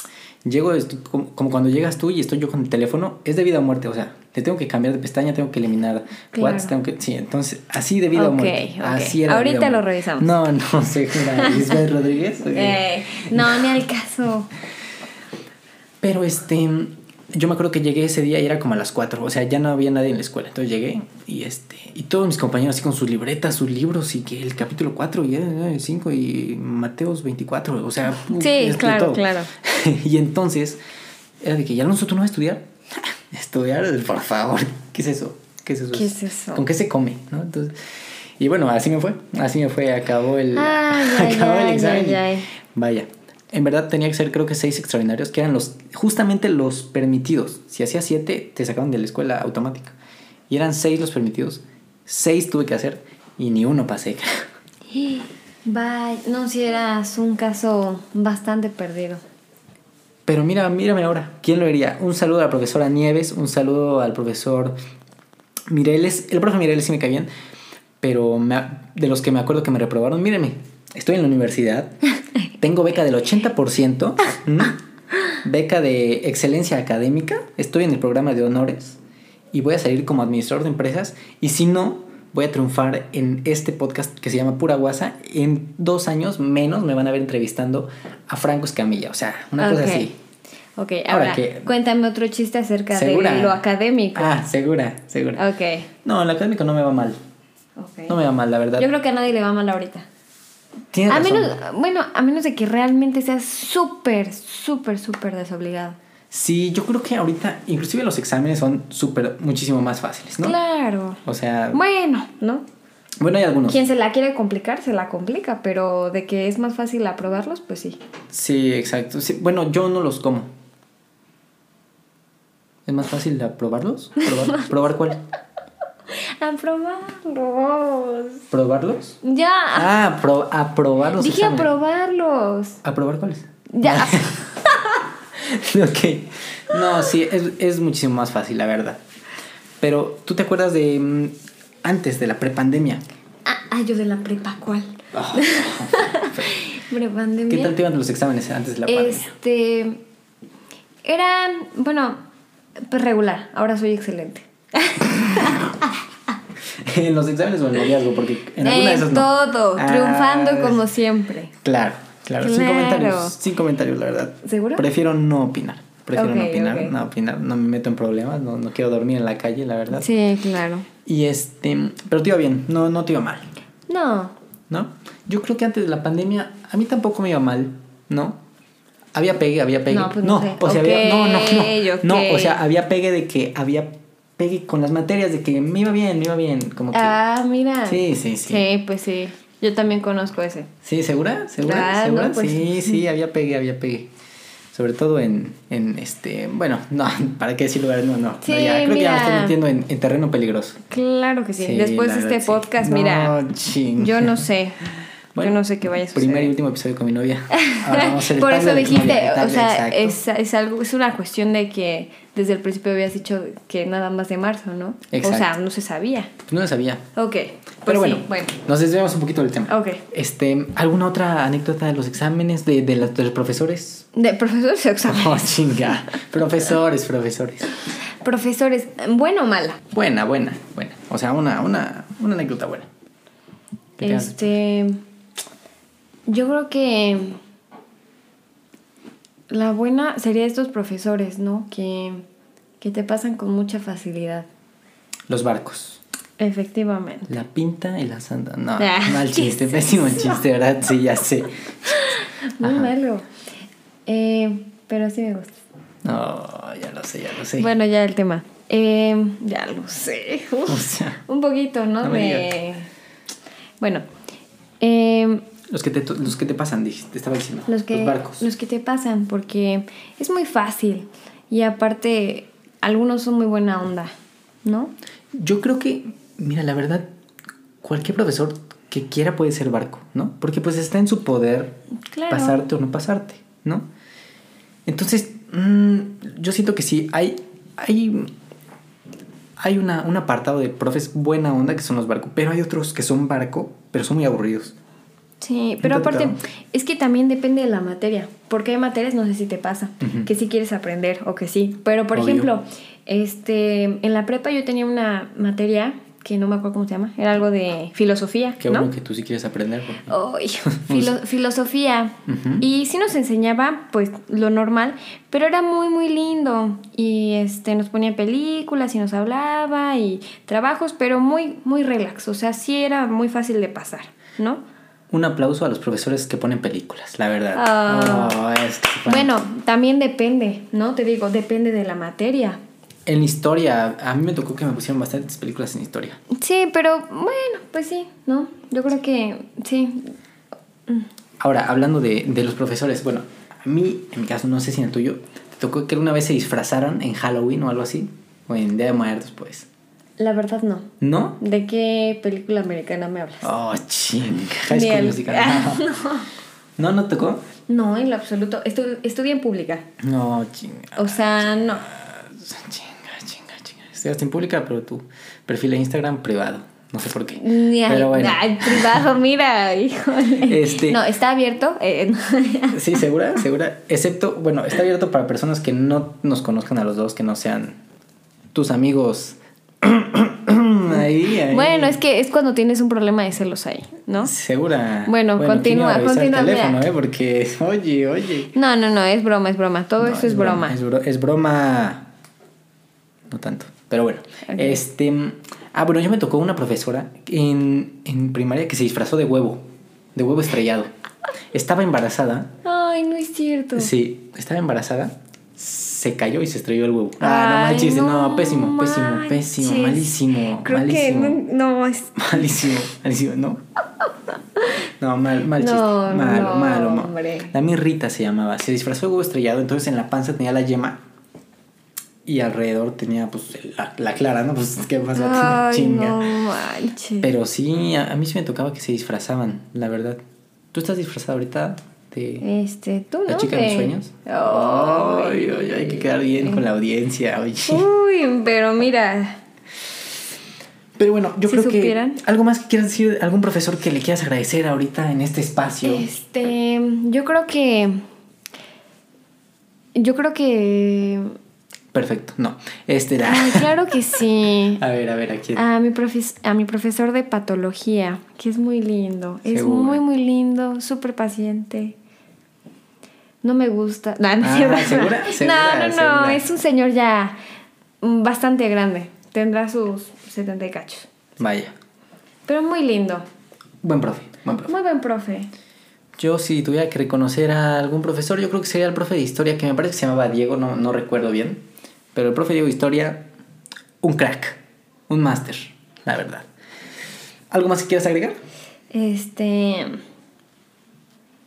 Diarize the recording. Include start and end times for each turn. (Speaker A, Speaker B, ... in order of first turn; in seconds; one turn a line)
Speaker A: 0.4-13.7
Speaker B: 6.3-6.7
Speaker B: 8.1-10.3
Speaker B: 11.3-11.8
Speaker B: 12.5-14.5
Speaker A: 16.0-30.8
Speaker B: 28.2-29.5
Speaker A: 31.4-37.8
Speaker B: 35.9-36.6
Speaker A: 38.4-49.9
Speaker B: 40.5-42.5
Speaker A: 50.5-54.4
Speaker B: 54.9-59.2
Speaker A: 60.3-64.8
Speaker A: 65.7-67.3
Speaker A: 68.0-72.0
Speaker A: 72.6-74.8
Speaker A: 75.3-79.0
Speaker A: 79.5-90.2
Speaker B: 89.6-90.1
Speaker B: 90.8-94.3
Speaker A: 91.1-91.7
Speaker A: 92.9-93.6
Speaker A: 94.1-95.4
Speaker B: 95.3-95.9
Speaker A: 96.0-97.2
Speaker B: 97.8-98.2
Speaker A: 98.1-98.9
Speaker B: 98.8-100.1
Speaker A: 100.9-101.5
Speaker B: 101.1-106.0
Speaker A: 106.3-110.6
Speaker B: 110.4-111.2
Speaker A: 111.2-111.8
Speaker B: 111.7-112.6
Speaker A: 113.2-113.8
Speaker B: 113.7-118.0
Speaker A: 118.3-120.5
Speaker A: 122.8-125.2
Speaker B: 126.1-128.4
Speaker A: 128.5-129.2
Speaker B: 129.2-129.9
Speaker A: 129.7-131.7
Speaker B: 131.2-132.8
Speaker A: 132.8-134.4
Speaker B: 133.7-135.0
Speaker A: 135.3-139.0
Speaker A: 139.8-143.0
Speaker B: 143.4-147.8
Speaker A: 145.1-146.6
Speaker A: 147.5-149.3
Speaker B: 148.9-150.0
Speaker B: 151.0-152.2
Speaker B: 152.8-155.9
Speaker A: 155.2-155.6
Speaker A: 156.8-160.8
Speaker B: 158.6-161.5
Speaker A: 161.6-170.1
Speaker B: 162.4-163.3
Speaker B: 164.4-164.8
Speaker B: 166.1-166.9
Speaker B: 169.9-170.9
Speaker A: 171.0-173.5
Speaker B: 173.9-174.3
Speaker A: 174.7-178.4
Speaker A: 179.1-187.2
Speaker B: 179.9-182.6
Speaker B: 186.9-190.7
Speaker A: 187.8-188.6
Speaker A: 190.8-194.1
Speaker B: 191.6-193.0
Speaker A: 194.7-200.8
Speaker B: 198.4-199.6
Speaker B: 200.9-203.4
Speaker A: 201.6-204.4
Speaker B: 203.9-206.5
Speaker A: 205.3-210.2
Speaker B: 207.6-216.3
Speaker A: 215.1-215.5
Speaker A: 216.5-217.1
Speaker B: 217.2-218.6
Speaker A: 217.8-224.1
Speaker B: 219.7-220.0
Speaker B: 224.1-225.8
Speaker A: 225.1-227.7
Speaker B: 228.2-229.8
Speaker A: 229.9-232.9
Speaker A: 234.0-234.5
Speaker B: 234.0-235.0
Speaker B: 236.3-237.4
Speaker B: 239.5-242.2
Speaker B: 242.8-244.5
Speaker A: 245.3-246.0
Speaker B: 246.4-247.3
Speaker A: 247.3-252.1
Speaker B: 248.8-250.4
Speaker B: 252.0-253.3
Speaker A: 252.6-252.9
Speaker B: 254.1-255.5
Speaker A: 256.0-257.7
Speaker B: 257.6-262.9
Speaker A: 260.6-261.2
Speaker A: 262.0-262.5
Speaker B: 263.8-264.1
Speaker B: 264.8-265.5
Speaker A: 265.7-268.4
Speaker B: 267.7-274.9
Speaker A: 275.3-277.1
Speaker A: 277.8-283.9
Speaker B: 282.1-282.6
Speaker A: 284.9-288.3
Speaker A: 289.6-294.7
Speaker B: 295.4-308.9
Speaker A: 295.8-296.4
Speaker A: 300.0-300.3
Speaker A: 302.1-302.5
Speaker A: 308.6-310.1
Speaker B: 310.1-324.6
Speaker A: 310.6-311.2
Speaker A: 312.3-312.6
Speaker A: 325.1-329.3
Speaker B: 327.5-328.4
Speaker B: 329.1-332.6
Speaker A: 333.1-336.2
Speaker B: 336.3-340.1
Speaker A: 341.4-349.7
Speaker B: 350.2-350.9
Speaker A: 351.0-351.4
Speaker B: 351.4-353.5
Speaker A: 353.4-355.9
Speaker B: 354.7-356.3
Speaker A: 356.8-357.4
Speaker B: 357.7-359.9
Speaker A: 360.0-361.2
Speaker B: 360.9-361.9
Speaker A: 361.9-369.0
Speaker B: 367.4-373.1
Speaker A: 370.4-371.0
Speaker A: 372.7-377.8
Speaker A: 378.5-382.0
Speaker B: 380.9-384.3
Speaker A: 384.2-388.5
Speaker B: 385.1-386.8
Speaker B: 388.5-390.8
Speaker A: 390.0-392.1
Speaker A: 393.3-399.6
Speaker B: 394.4-394.8
Speaker A: 400.1-400.9
Speaker A: 401.5-402.5
Speaker B: 402.6-403.9
Speaker A: 403.7-411.4
Speaker B: 407.2-412.6
Speaker A: 412.1-413.6
Speaker A: 415.0-421.0
Speaker B: 415.5-417.5
Speaker A: 422.2-426.3
Speaker B: 425.1-427.3
Speaker A: 427.2-430.2
Speaker A: 430.7-432.4
Speaker B: 432.4-436.7
Speaker A: 433.3-437.9
Speaker B: 437.7-439.4
Speaker A: 441.0-446.1
Speaker B: 441.5-442.2
Speaker B: 445.8-448.0
Speaker B: 449.9-451.3
Speaker A: 451.9-453.7
Speaker B: 453.2-454.8
Speaker A: 454.8-455.6
Speaker B: 455.5-461.9
Speaker A: 459.4-460.0
Speaker B: 463.4-467.4
Speaker A: 464.4-466.4
Speaker B: 468.0-471.1
Speaker A: 471.4-471.7
Speaker B: 472.4-473.2
Speaker A: 473.8-474.7
Speaker B: 474.6-475.5
Speaker A: 476.2-483.3
Speaker A: 484.0-486.5
Speaker A: 487.5-488.4
Speaker B: 488.9-490.0